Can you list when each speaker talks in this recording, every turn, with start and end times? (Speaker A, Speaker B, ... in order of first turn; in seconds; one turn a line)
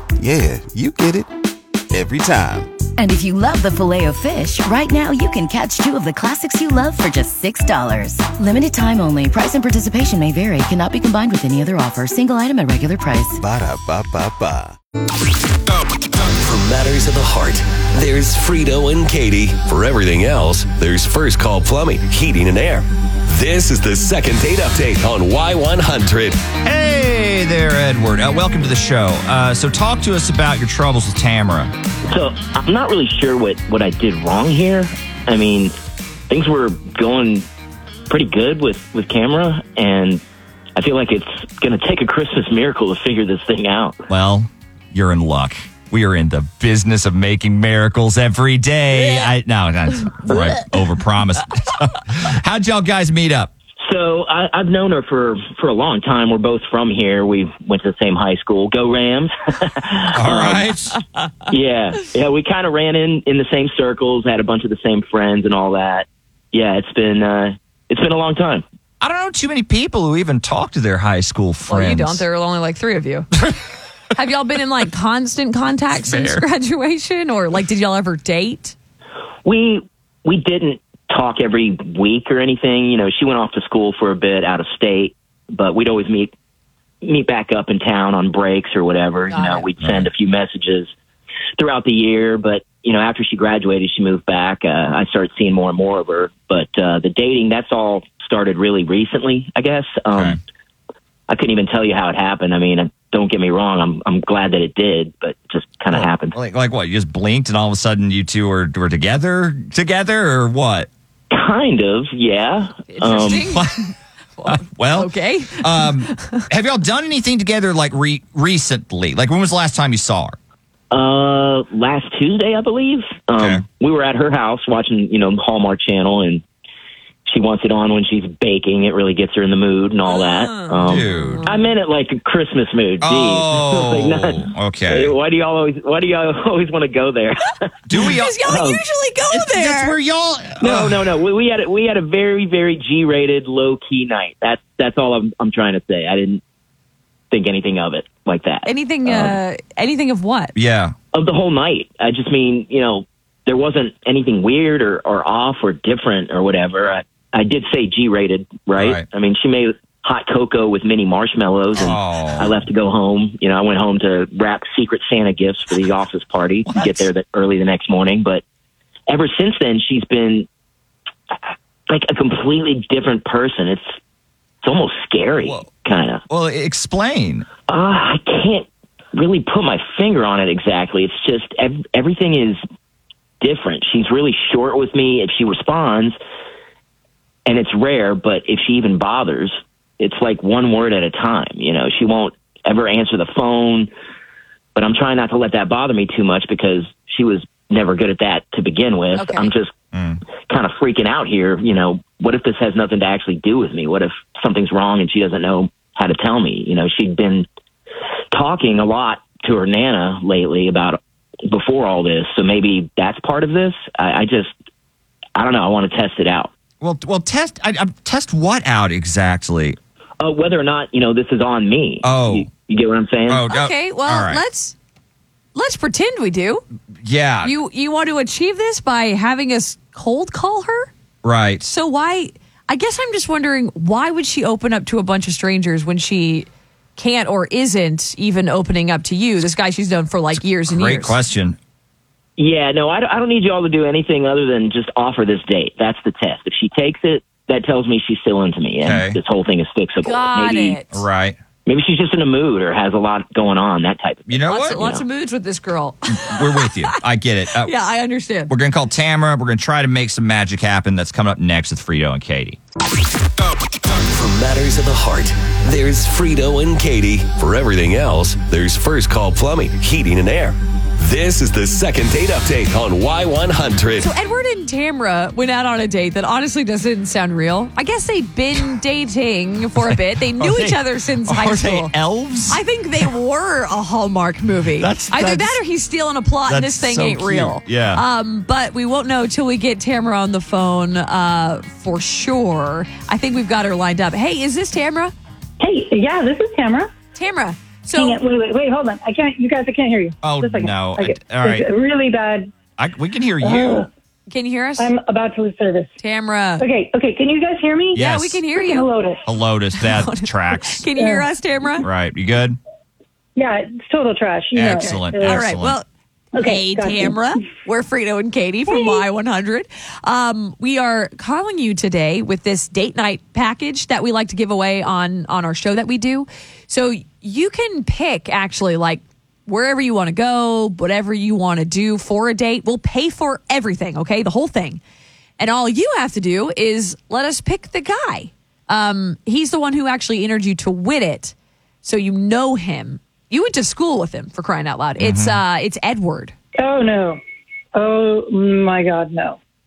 Speaker A: 0.2-1.3
Speaker A: 1.9-2.8
Speaker B: 3.0-13.4
Speaker A: 13.4-14.8
Speaker C: 15.9-26.4
Speaker D: 26.6-31.7
Speaker E: 32.1-35.7
Speaker E: 36.3-37.4
Speaker E: 38.1-40.2
Speaker E: 40.8-44.0
Speaker D: 44.1-53.5
Speaker E: 53.8-60.7
Speaker D: 60.1-61.0
Speaker E: 61.5-68.6
Speaker D: 69.0-72.2
Speaker F: 71.7-73.5
Speaker F: 74.1-78.7
Speaker D: 76.0-76.4
Speaker E: 79.4-86.3
Speaker E: 87.0-90.9
Speaker F: 89.3-89.7
Speaker D: 89.8-90.1
Speaker E: 91.6-100.4
Speaker D: 100.1-100.4
Speaker E: 101.3-106.3
Speaker D: 105.9-110.9
Speaker E: 111.3-113.4
Speaker F: 112.9-116.4
Speaker D: 113.0-113.7
Speaker D: 114.5-120.3
Speaker E: 120.9-126.4
Speaker D: 123.4-123.6
Speaker E: 127.3-138.8
Speaker F: 130.0-131.7
Speaker D: 130.8-131.4
Speaker D: 133.0-135.1
Speaker D: 137.9-138.4
Speaker F: 138.0-139.9
Speaker D: 139.3-141.1
Speaker E: 140.6-146.4
Speaker E: 147.3-149.4
Speaker F: 148.6-150.5
Speaker D: 150.5-150.9
Speaker E: 151.1-168.4
Speaker D: 158.7-159.1
Speaker D: 161.7-162.6
Speaker D: 166.6-167.1
Speaker E: 169.1-170.5
Speaker E: 171.3-173.9
Speaker E: 174.6-176.2
Speaker D: 175.4-175.7
Speaker D: 176.3-177.5
Speaker E: 177.7-182.6
Speaker E: 183.4-186.2
Speaker E: 187.4-193.9
Speaker E: 194.7-199.7
Speaker F: 199.1-199.5
Speaker D: 199.9-200.2
Speaker E: 200.4-207.4
Speaker E: 208.3-214.5
Speaker E: 215.3-216.5
Speaker D: 216.8-219.8
Speaker E: 220.2-223.5
Speaker D: 222.0-222.5
Speaker D: 223.3-224.4
Speaker F: 223.5-224.7
Speaker F: 225.5-226.6
Speaker D: 227.0-227.5
Speaker F: 227.4-230.9
Speaker D: 231.2-231.6
Speaker F: 231.6-241.2
Speaker D: 240.7-241.6
Speaker E: 242.4-250.8
Speaker D: 248.8-249.2
Speaker F: 250.0-251.0
Speaker D: 250.9-251.4
Speaker E: 251.7-255.0
Speaker D: 254.3-254.8
Speaker F: 254.5-256.9
Speaker D: 256.2-257.7
Speaker F: 257.6-258.5
Speaker D: 258.5-262.6
Speaker C: 263.7-274.1
Speaker F: 274.0-281.9
Speaker D: 279.9-282.6
Speaker F: 282.5-295.1
Speaker D: 284.8-285.6
Speaker D: 286.5-288.0
Speaker G: 295.6-296.9
Speaker F: 297.1-298.2
Speaker G: 297.9-302.5
Speaker D: 300.2-301.7
Speaker D: 302.8-303.9
Speaker G: 303.4-303.9
Speaker F: 304.3-304.9
Speaker G: 304.8-306.0
Speaker F: 306.0-306.6
Speaker G: 306.6-308.0
Speaker D: 307.9-308.4
Speaker F: 307.9-308.9
Speaker G: 308.5-309.2
Speaker D: 309.2-310.9
Speaker F: 309.8-311.9
Speaker G: 311.0-311.3
Speaker D: 311.8-312.6
Speaker G: 313.4-315.5
Speaker D: 314.5-315.8
Speaker F: 315.2-315.9
Speaker G: 316.3-317.2
Speaker F: 316.4-334.8
Speaker G: 318.7-319.0
Speaker F: 335.4-346.3
Speaker D: 345.0-345.4
Speaker G: 346.6-347.2
Speaker G: 347.7-349.4